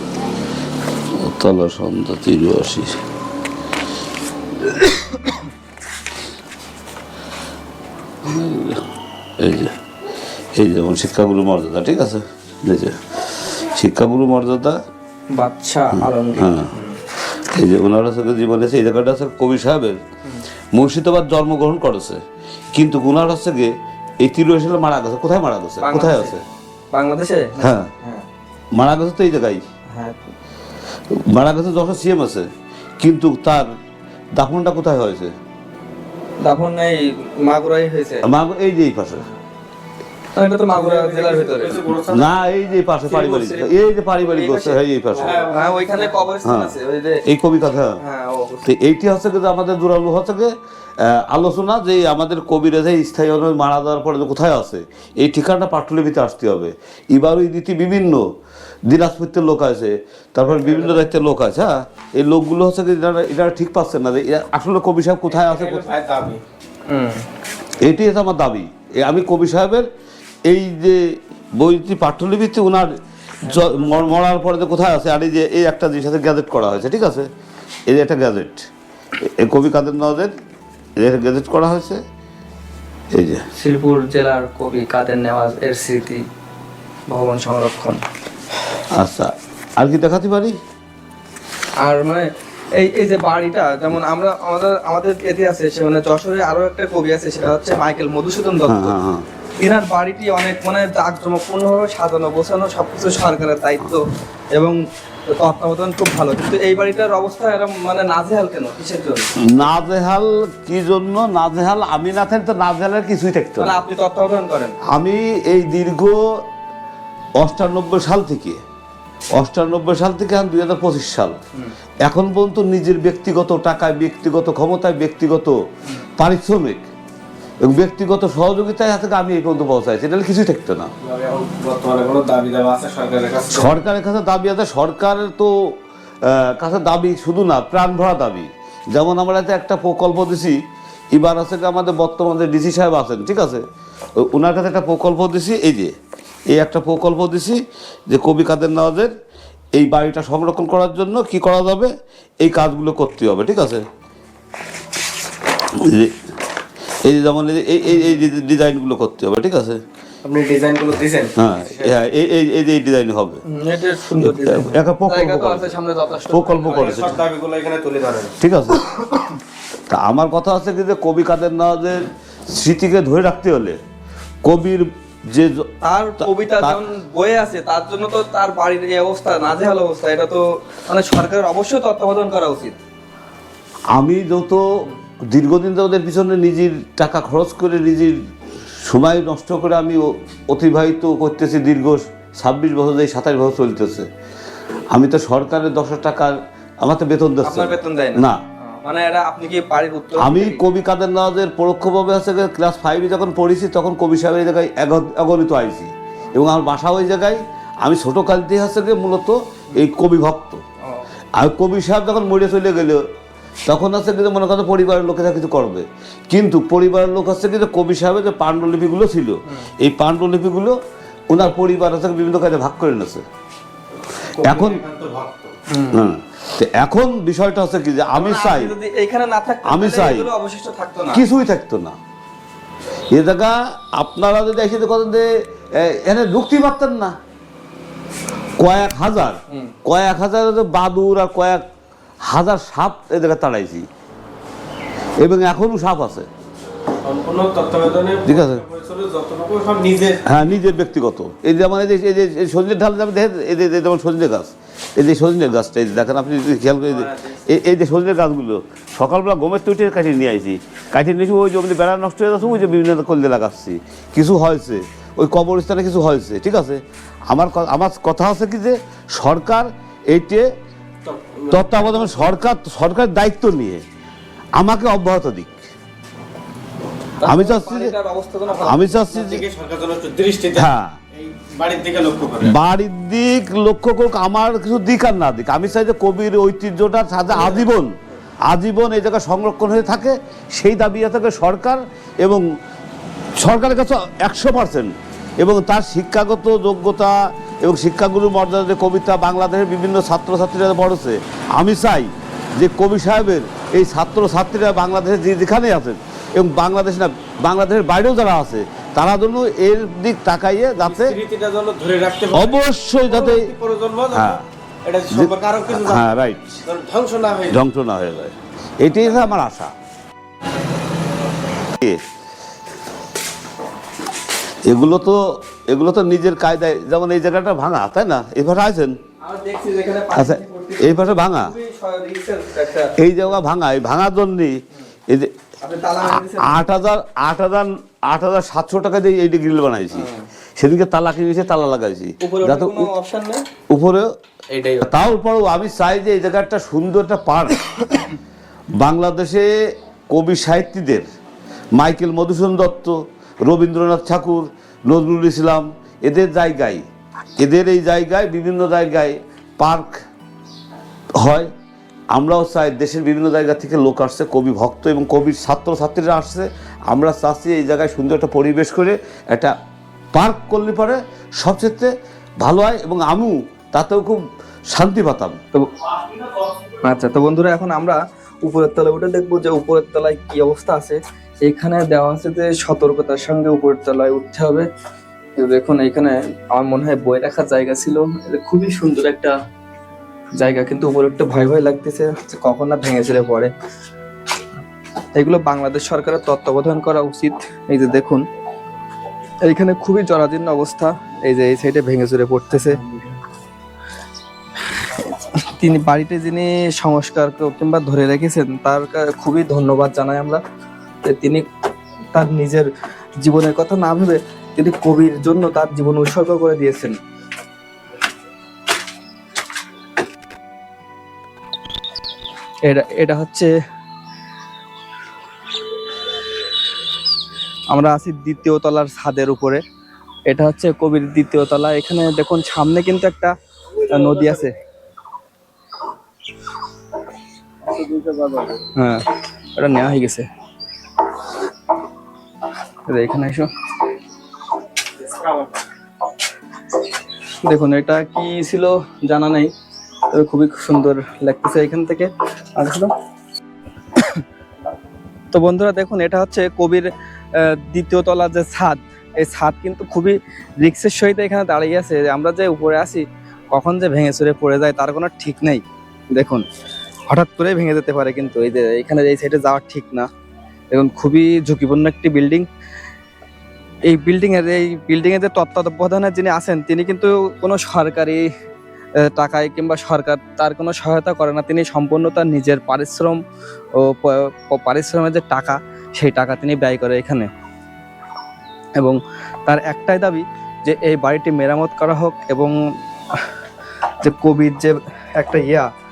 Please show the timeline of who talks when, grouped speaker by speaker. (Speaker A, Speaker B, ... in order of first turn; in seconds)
Speaker A: 1.1-3.0, 8.2-9.8, 10.5-14.8, 16.4-20.0, 20.7-22.2, 22.7-26.4, 27.6-27.9, 28.7-29.6, 31.1-33.7, 34.4-35.3, 38.2-39.2, 42.1-45.4, 46.4-46.7, 47.2-48.0, 48.6-58.3, 58.9-65.9, 67.8-69.9, 70.5-77.3, 77.9-78.7, 79.2-80.3, 81.0-82.0, 83.1-83.5, 88.9-90.6, 98.7-99.3, 109.4-113.7, 114.8-116.4, 117.4-118.6, 119.3-121.4, 122.0-125.5, 126.2-126.8, 127.6-130.9, 133.5-140.6, 141.1-143.6, 144.2-145.9, 146.5-149.1, 149.8-153.8, 155.7-156.2, 157.0-159.8, 161.4-163.4, 164.2-165.7, 166.3-167.2, 168.4-168.9, 169.9-173.8, 174.4-175.7, 183.9-188.2, 188.8-194.1, 194.9-198.4, 200.2-210.6, 211.4-213.0, 213.7-220.8, 221.3-223.2, 224.4-224.8, 225.9-228.7, 229.7-230.3, 231.1-232.0, 233.1-237.2, 238.6-241.6, 242.2-243.9, 245.2-246.3, 248.2-248.6, 250.2-270.5, 271.5-273.8, 274.6-275.6, 277.2-277.9, 278.6-279.4, 280.5-281.0, 282.4-287.9, 288.5-292.4, 293.4-311.2, 312.3-313.5, 314.1-314.4, 315.1-316.6, 317.5-319.7, 324.6-328.9, 330.1-331.5, 333.0-335.3, 336.1-342.9, 343.7-344.1, 344.8-347.6, 348.8-351.1, 351.7-356.8, 357.4-360.0, 361.2-361.5, 362.1-369.5, 370.1-375.4
Speaker B: 15.3-17.0, 25.8-26.3, 26.9-28.2, 29.9-30.3, 36.4-38.2, 40.3-41.8, 43.1-43.7, 44.2-44.8, 45.3-47.2, 48.0-48.7, 66.9-67.2, 73.4-73.8, 83.5-86.2, 87.1-88.0, 91.8-98.9, 99.6-109.3, 113.6-114.8, 163.4-167.1, 175.8-182.8, 197.4-198.2, 198.8-200.6, 225.7-226.0, 228.1-231.2, 277.2-279.0, 329.2-333.0, 335.6-336.6, 339.9-340.2, 342.2-343.4, 344.5-344.9, 375.5-375.8, 376.8-384.7, 385.4-389.4, 390.4-393.5, 395.1-398.2, 399.4-402.8, 405.5-410.4, 411.0-411.4, 412.1-417.0, 422.6-423.5, 427.7-429.6, 430.3-434.5, 438.8-440.2, 442.9-443.5, 447.4-449.5, 450.1-452.9, 455.3-466.4, 467.1-470.1, 470.7-472.5, 473.9-478.3, 479.0-483.2, 483.7-487.3, 488.8-492.5, 494.0-495.7
Speaker C: 40.7-42.4, 45.1-46.0, 60.6-61.0, 65.3-66.4, 131.0-133.8, 160.2-161.9, 166.7-168.3, 224.4-225.6, 247.0-250.2, 256.9-257.4, 271.0-272.4, 279.0-282.6, 287.3-287.7, 310.8-316.0, 316.6-317.6, 437.7-438.6, 445.0-445.5